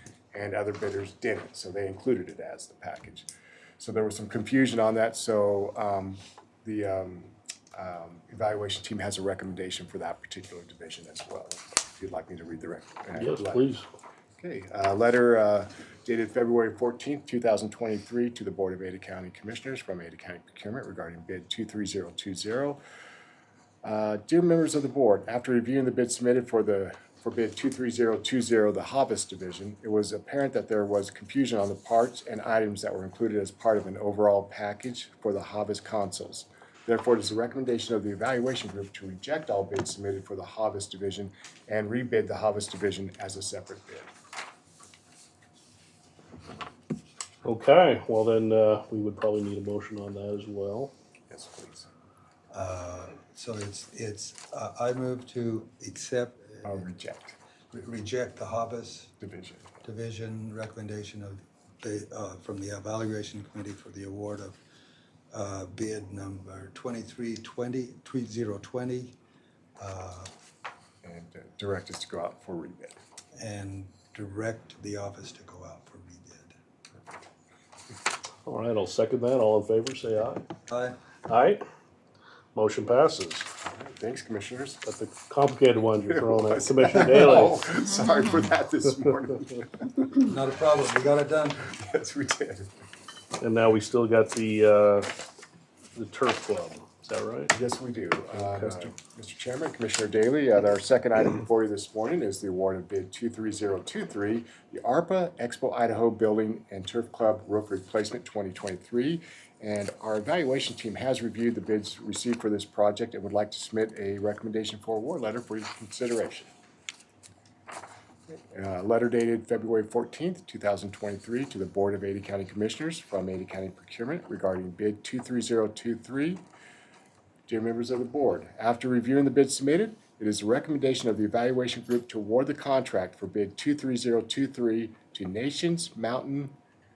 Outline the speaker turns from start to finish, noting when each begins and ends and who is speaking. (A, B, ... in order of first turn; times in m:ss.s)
0:00.3-0:03.3 A
0:03.8-0:13.7 A
0:13.2-0:13.8 B
0:14.4-0:22.8 A
0:23.8-0:44.1 A
0:47.4-0:50.9 B
0:51.3-0:51.9 A
0:52.5-0:56.8 C
0:56.6-0:57.4 A
0:57.7-0:59.1 C
0:59.2-0:59.6 A
0:59.8-1:04.6 C
1:05.3-1:09.2 C
1:09.8-1:10.3 C
1:11.0-1:13.0 A
1:13.3-1:16.5 C
1:18.4-1:20.4 B
1:20.7-1:21.0 C
1:21.3-1:21.6 B
1:22.5-1:23.5 B
1:23.6-1:24.8 A
1:24.8-1:27.7 B
1:26.1-1:30.2 A
1:30.2-1:31.6 C
1:31.6-1:32.7 A
1:33.4-1:35.1 B
1:36.0-1:37.5 B
1:37.5-1:56.5 A
1:38.3-1:38.9 B
1:58.3-2:06.4 A
2:07.5-2:16.5 A